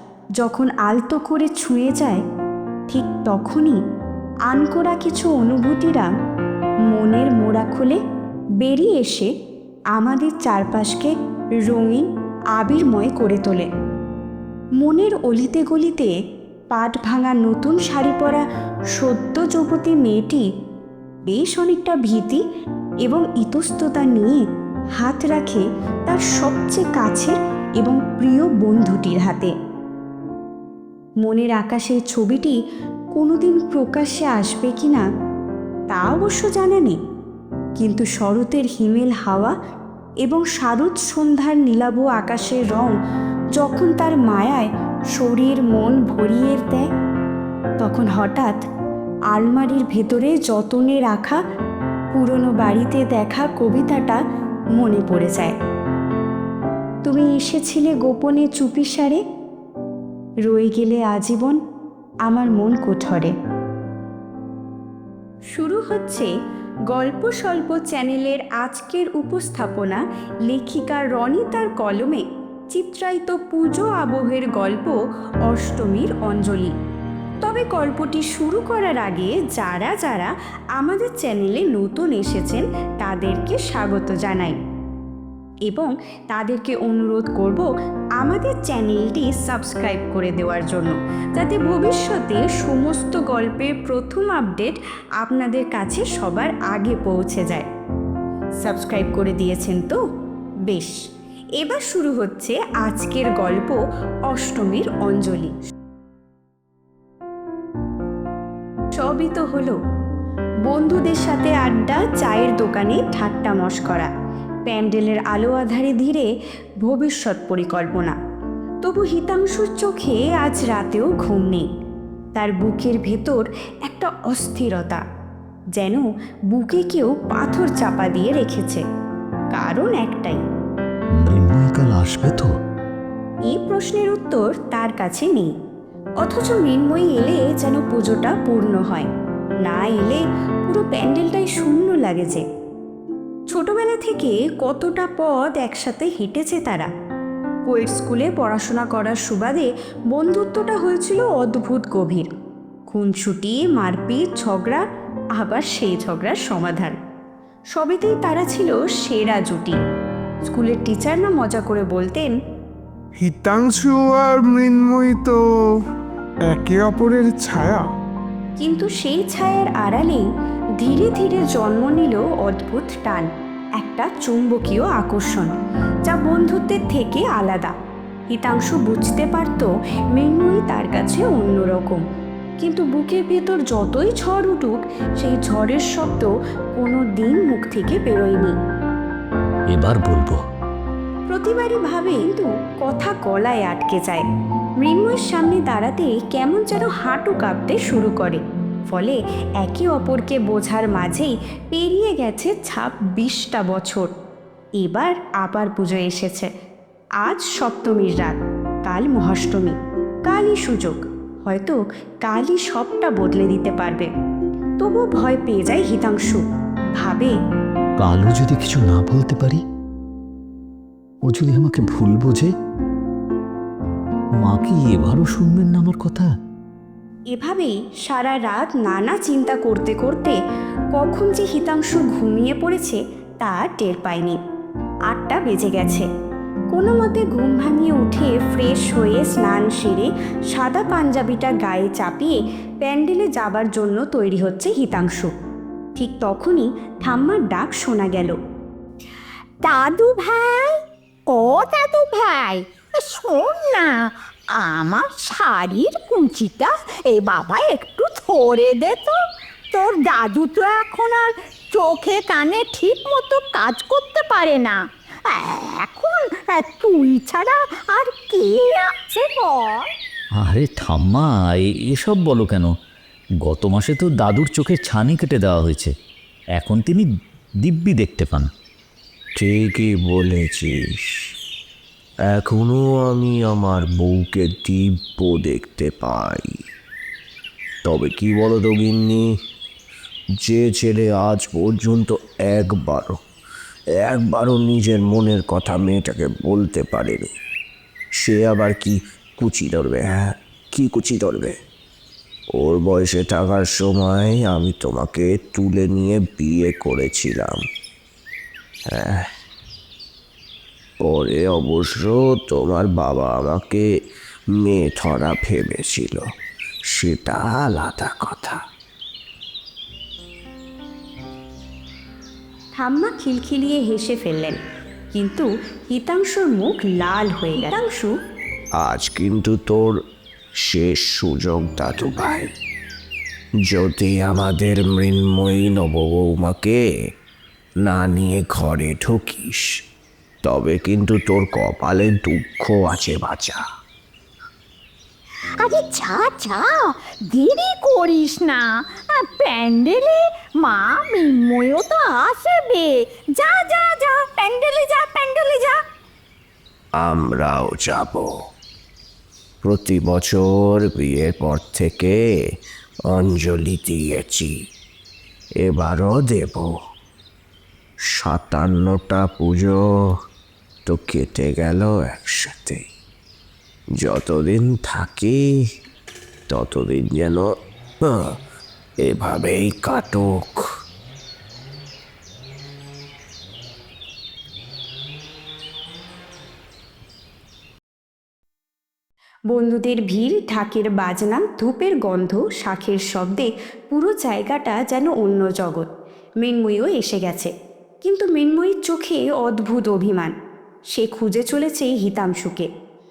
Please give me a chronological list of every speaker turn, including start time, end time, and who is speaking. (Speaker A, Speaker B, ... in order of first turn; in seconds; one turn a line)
Speaker A: 0.4-2.2
Speaker A: 2.9-3.8
Speaker A: 4.5-6.1
Speaker A: 6.9-8.0
Speaker A: 8.6-9.3
Speaker A: 9.9-13.7
Speaker A: 14.8-16.1
Speaker A: 16.7-18.4
Speaker A: 18.9-20.4
Speaker A: 21.2-22.4
Speaker A: 23.0-24.4
Speaker A: 25.0-29.5
Speaker A: 31.2-32.6
Speaker A: 33.1-35.0
Speaker A: 35.9-37.0
Speaker A: 37.8-39.5
Speaker A: 40.2-42.9
Speaker A: 43.5-46.9
Speaker A: 47.8-48.6
Speaker A: 49.3-51.4
Speaker A: 52.1-54.2
Speaker A: 54.7-55.5
Speaker A: 57.0-59.2
Speaker A: 60.4-61.6
Speaker A: 62.2-63.3
Speaker A: 65.5-66.3
Speaker A: 66.9-76.7
Speaker A: 77.4-84.6
Speaker A: 85.7-87.7
Speaker A: 88.2-97.7
Speaker A: 98.6-100.0
Speaker A: 100.7-101.0
Speaker A: 101.6-103.8
Speaker A: 104.3-105.6
Speaker A: 108.9-109.8
Speaker A: 110.6-114.1
Speaker A: 114.7-116.2
Speaker A: 116.8-118.2
Speaker A: 118.8-121.7
Speaker A: 122.3-125.0
Speaker A: 125.8-128.8
Speaker A: 129.5-130.4
Speaker B: 131.2-132.5
Speaker A: 133.5-135.5
Speaker A: 136.2-139.1
Speaker A: 139.6-142.4
Speaker A: 143.5-146.9
Speaker A: 147.7-152.3
Speaker A: 152.9-154.8
Speaker A: 155.3-157.0
Speaker A: 157.7-159.8
Speaker A: 160.5-162.3
Speaker C: 163.2-165.4
Speaker C: 166.5-167.8
Speaker A: 168.6-170.2
Speaker A: 170.8-175.5
Speaker A: 176.1-177.7
Speaker A: 178.3-182.0
Speaker A: 182.6-188.5
Speaker B: 189.7-190.4
Speaker A: 191.3-194.2
Speaker A: 194.8-204.1
Speaker A: 204.8-206.5
Speaker A: 207.2-214.1
Speaker A: 214.8-216.4
Speaker A: 217.0-217.3
Speaker B: 218.0-219.6
Speaker B: 221.2-222.5
Speaker B: 224.4-226.3
Speaker A: 227.3-230.3
Speaker A: 230.9-234.4
Speaker A: 235.1-236.1
Speaker A: 236.7-245.3
Speaker A: 245.9-248.3
Speaker D: 249.6-250.8
Speaker D: 251.3-259.2
Speaker D: 259.7-269.9
Speaker B: 270.4-272.7
Speaker B: 273.4-275.9
Speaker B: 276.6-277.1
Speaker B: 277.6-278.5
Speaker E: 279.4-281.3
Speaker E: 282.3-286.5
Speaker E: 287.8-289.3
Speaker E: 290.4-293.2
Speaker E: 294.0-297.3
Speaker E: 298.2-301.6
Speaker E: 302.5-307.6
Speaker E: 308.9-309.3
Speaker E: 311.0-313.8
Speaker E: 314.6-316.3
Speaker E: 316.9-318.6
Speaker A: 322.8-324.6
Speaker A: 325.1-328.1
Speaker E: 328.8-330.0
Speaker E: 330.6-332.5
Speaker E: 333.7-336.8
Speaker E: 337.8-339.7
Speaker E: 340.4-343.6
Speaker D: 345.6-355.8
Speaker E: 357.0-358.3
Speaker E: 359.6-362.1
Speaker E: 363.1-364.5
Speaker E: 365.6-366.7
Speaker E: 368.1-369.8
Speaker E: 370.9-372.8
Speaker E: 374.0-375.4
Speaker E: 376.5-377.5
Speaker E: 378.0-378.3
Speaker E: 379.0-380.6
Speaker A: 389.5-395.9
Speaker A: 396.4-397.5
Speaker A: 398.0-400.3
Speaker A: 400.9-402.7